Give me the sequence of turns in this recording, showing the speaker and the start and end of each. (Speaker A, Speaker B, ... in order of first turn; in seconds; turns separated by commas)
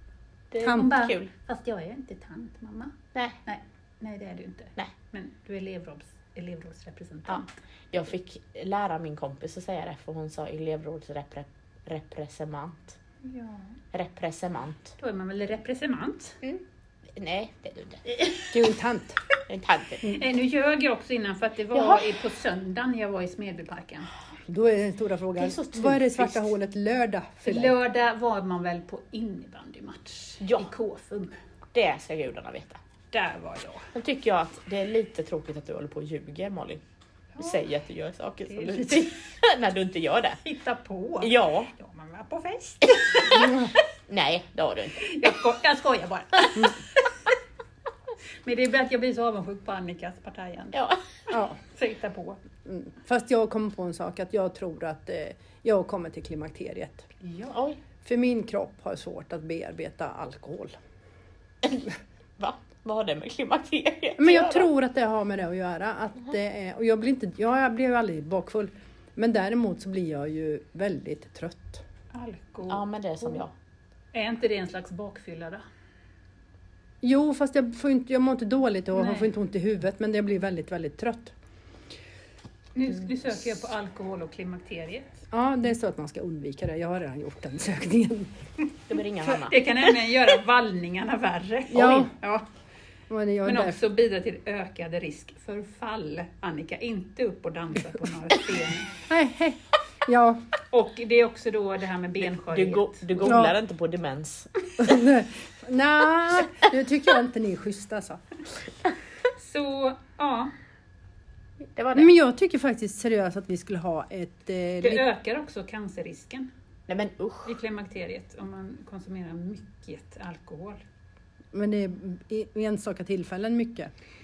Speaker A: 0.5-1.3, Speaker B: 0.6-7.5, Speaker C: 0.6-0.9, Speaker A: 7.3-13.0, Speaker B: 13.2-13.8, Speaker A: 13.9-14.9, Speaker B: 15.0-16.4, Speaker A: 17.2-18.0, Speaker B: 18.1-18.6, Speaker C: 18.5-19.2, Speaker A: 19.5-20.1, Speaker B: 20.1-24.1, Speaker A: 21.7-22.1, Speaker C: 24.5-27.8, Speaker A: 25.4-26.5, Speaker B: 27.4-31.4, Speaker A: 30.4-30.7, Speaker A: 31.7-32.8, Speaker B: 33.1-33.9, Speaker A: 33.9-36.8, Speaker A: 37.4-40.4, Speaker B: 38.5-39.0, Speaker B: 40.4-43.6, Speaker A: 41.2-41.7, Speaker C: 43.3-43.7, Speaker A: 44.1-45.1, Speaker B: 45.0-47.3, Speaker B: 48.4-52.4, Speaker A: 50.7-51.0, Speaker C: 51.3-51.6, Speaker C: 52.6-57.1, Speaker B: 57.2-57.5, Speaker A: 57.5-57.8, Speaker C: 58.0-60.8, Speaker A: 62.4-64.7, Speaker C: 64.2-71.8, Speaker B: 72.1-73.4, Speaker A: 72.7-73.5, Speaker B: 74.1-75.6, Speaker C: 77.0-81.3, Speaker B: 79.0-79.3, Speaker B: 82.8-85.2, Speaker C: 85.3-88.3, Speaker A: 88.9-89.6, Speaker B: 89.2-92.5, Speaker C: 91.7-92.1, Speaker C: 93.1-93.8, Speaker B: 93.5-99.0, Speaker C: 99.1-100.4, Speaker B: 100.7-103.0, Speaker A: 102.2-104.5, Speaker C: 103.2-103.5, Speaker C: 104.8-108.2, Speaker B: 109.4-110.5, Speaker A: 111.8-112.1, Speaker C: 112.0-115.1, Speaker B: 114.8-116.5, Speaker A: 116.9-117.6, Speaker B: 117.5-120.8, Speaker C: 121.5-123.9